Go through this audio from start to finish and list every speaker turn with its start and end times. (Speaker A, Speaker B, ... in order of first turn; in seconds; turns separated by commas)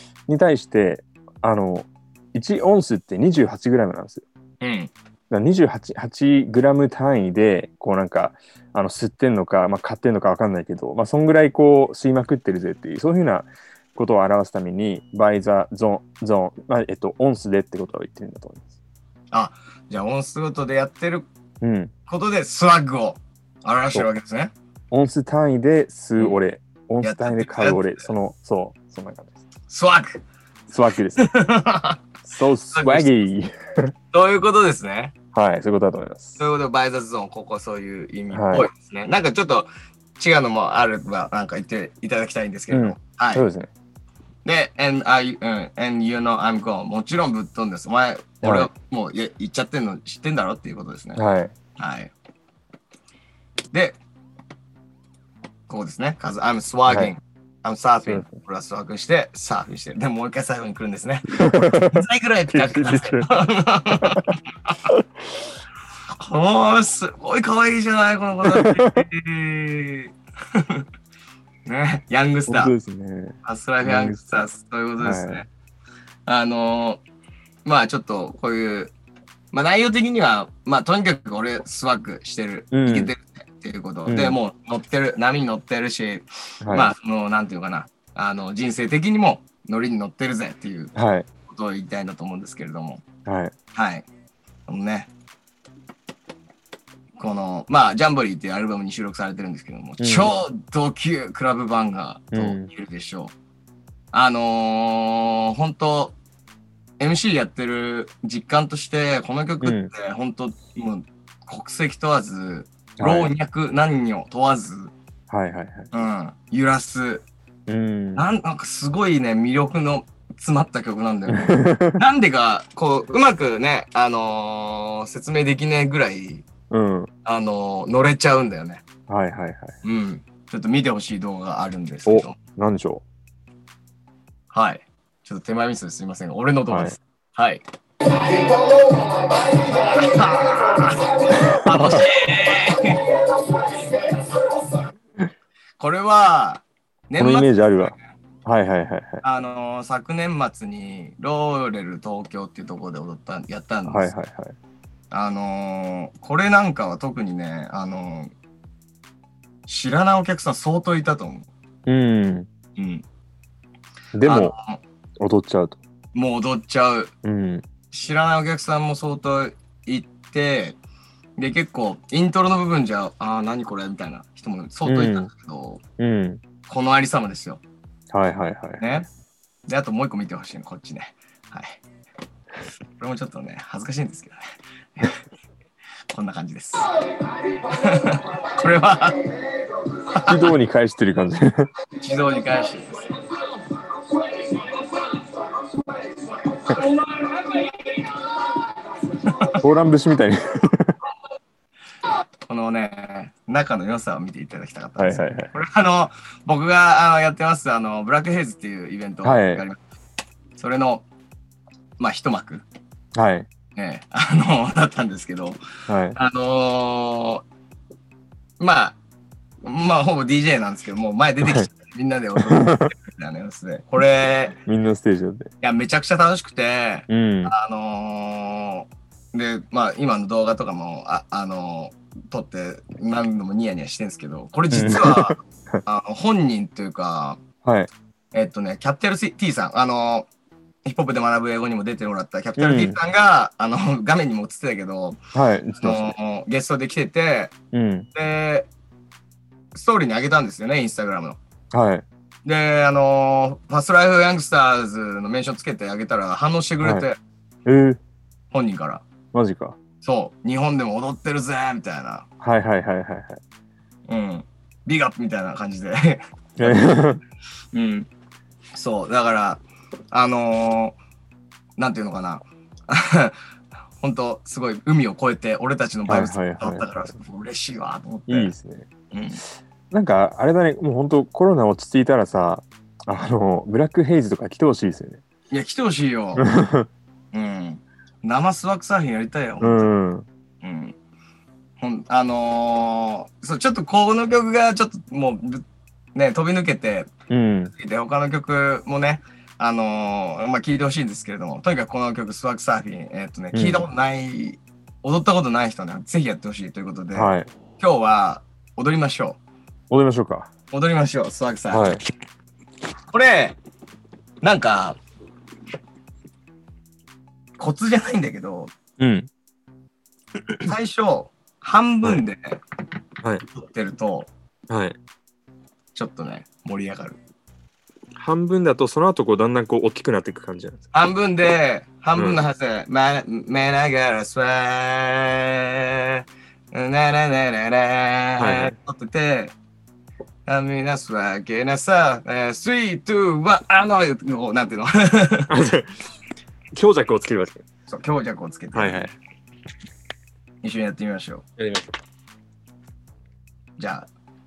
Speaker A: 0.3-4.2, Speaker B: 4.6-4.9, Speaker A: 5.3-18.7, Speaker B: 19.3-21.3, Speaker A: 21.6-21.9, Speaker B: 22.1-24.5, Speaker A: 24.9-29.4, Speaker B: 27.0-28.1, Speaker B: 29.7-30.2, Speaker A: 30.7-31.3, Speaker B: 31.2-32.0, Speaker A: 32.2-33.9, Speaker B: 32.7-33.1, Speaker B: 34.1-35.1, Speaker A: 35.3-36.3, Speaker B: 36.4-43.4, Speaker A: 38.3-38.7, Speaker A: 42.7-43.7, Speaker B: 44.4-51.2, Speaker A: 48.4-48.7, Speaker A: 51.1-51.5, Speaker B: 51.8-52.1, Speaker B: 53.7-54.0, Speaker B: 55.7-64.3, Speaker A: 58.0-58.3, Speaker A: 61.4-62.0, Speaker A: 62.5-63.4, Speaker A: 63.9-64.2, Speaker B: 66.2-70.8, Speaker A: 68.5-69.0, Speaker B: 71.7-72.7, Speaker A: 72.5-74.5, Speaker B: 73.4-75.5, Speaker A: 75.0-75.4, Speaker B: 76.3-77.0, Speaker B: 77.6-78.9, Speaker B: 79.5-90.9, Speaker A: 82.7-83.1, Speaker A: 84.0-84.4, Speaker A: 86.6-86.9, Speaker A: 90.9-91.3, Speaker B: 91.5-93.0, Speaker A: 93.2-93.5, Speaker B: 93.7-94.0, Speaker B: 94.7-95.1, Speaker B: 97.2-103.3, Speaker A: 100.0-100.3, Speaker A: 102.3-102.7, Speaker B: 104.1-106.2, Speaker B: 107.0-114.9, Speaker A: 109.6-109.9, Speaker A: 113.0-113.3, Speaker A: 115.3-115.9, Speaker B: 115.9-117.2, Speaker A: 117.7-118.3, Speaker B: 118.2-126.5, Speaker A: 121.3-122.0, Speaker A: 126.7-127.1, Speaker B: 127.2-128.8, Speaker A: 129.1-129.7, Speaker B: 129.8-132.4, Speaker A: 132.1-133.0, Speaker B: 134.5-137.6, Speaker A: 136.7-137.0, Speaker B: 138.4-144.4, Speaker B: 145.8-147.9, Speaker A: 147.2-149.2, Speaker B: 149.2-154.1, Speaker A: 153.9-154.6, Speaker B: 155.1-158.3, Speaker B: 159.7-161.5, Speaker A: 161.9-162.5, Speaker B: 162.8-163.0, Speaker A: 164.1-164.5, Speaker B: 164.2-164.8, Speaker A: 165.2-165.8, Speaker B: 166.1-167.1, Speaker A: 167.2-167.6, Speaker B: 167.9-170.8, Speaker B: 171.4-175.8, Speaker A: 174.8-175.3, Speaker A: 176.0-176.4, Speaker B: 176.7-177.6, Speaker A: 178.1-178.9, Speaker B: 178.8-179.1, Speaker B: 179.7-181.8, Speaker B: 183.0-184.4, Speaker B: 186.1-186.8, Speaker B: 187.5-189.3, Speaker B: 190.0-190.5, Speaker A: 190.2-191.7, Speaker B: 192.0-193.2, Speaker B: 196.7-197.3, Speaker B: 199.1-199.6, Speaker A: 199.6-200.9, Speaker B: 202.5-209.8, Speaker A: 205.0-205.5, Speaker A: 209.2-209.6, Speaker B: 210.6-211.1, Speaker B: 212.0-212.6, Speaker A: 213.2-213.5, Speaker B: 213.8-215.6, Speaker A: 215.9-216.2, Speaker B: 216.2-217.4, Speaker B: 218.6-219.0, Speaker B: 219.6-224.6, Speaker A: 222.4-222.9, Speaker A: 224.6-225.5, Speaker B: 225.6-237.4, Speaker A: 227.1-227.5, Speaker A: 234.7-235.8, Speaker B: 238.3-240.3, Speaker B: 240.8-245.2, Speaker A: 242.6-243.0, Speaker A: 245.3-246.1, Speaker B: 245.8-247.5, Speaker A: 247.7-248.1, Speaker B: 248.1-248.7, Speaker B: 249.7-251.4, Speaker A: 251.7-252.0, Speaker B: 252.4-257.2, Speaker A: 257.6-258.0, Speaker B: 258.5-259.0, Speaker A: 259.3-259.8, Speaker B: 260.0-262.2, Speaker A: 262.4-263.4, Speaker B: 264.1-266.9, Speaker A: 266.6-267.2, Speaker B: 267.7-268.1, Speaker B: 268.7-271.0, Speaker B: 271.8-273.4, Speaker B: 274.0-278.5, Speaker A: 276.1-276.9, Speaker A: 278.3-278.9, Speaker B: 279.1-279.4, Speaker A: 279.9-285.2, Speaker B: 285.5-286.4, Speaker A: 286.4-286.9, Speaker B: 287.3-289.9, Speaker A: 289.6-290.2, Speaker B: 290.6-290.9, Speaker B: 291.8-295.6, Speaker B: 296.1-297.1, Speaker A: 297.3-297.7, Speaker B: 297.7-309.4, Speaker A: 303.5-303.9, Speaker A: 307.1-307.5, Speaker A: 309.9-310.5, Speaker B: 310.7-311.9, Speaker A: 311.7-312.0, Speaker B: 313.1-313.6, Speaker B: 314.4-315.0, Speaker B: 317.6-318.7, Speaker A: 319.0-319.3, Speaker B: 320.6-322.6, Speaker B: 323.5-324.3, Speaker A: 324.7-324.9, Speaker B: 325.9-327.2, Speaker A: 328.2-330.8, Speaker B: 330.9-339.5, Speaker A: 332.1-332.4, Speaker A: 338.4-338.7, Speaker B: 340.5-345.5, Speaker A: 345.5-345.9, Speaker A: 346.7-347.6, Speaker B: 347.9-349.1, Speaker A: 348.7-349.1, Speaker B: 350.6-351.4, Speaker A: 351.6-351.9, Speaker B: 353.8-354.1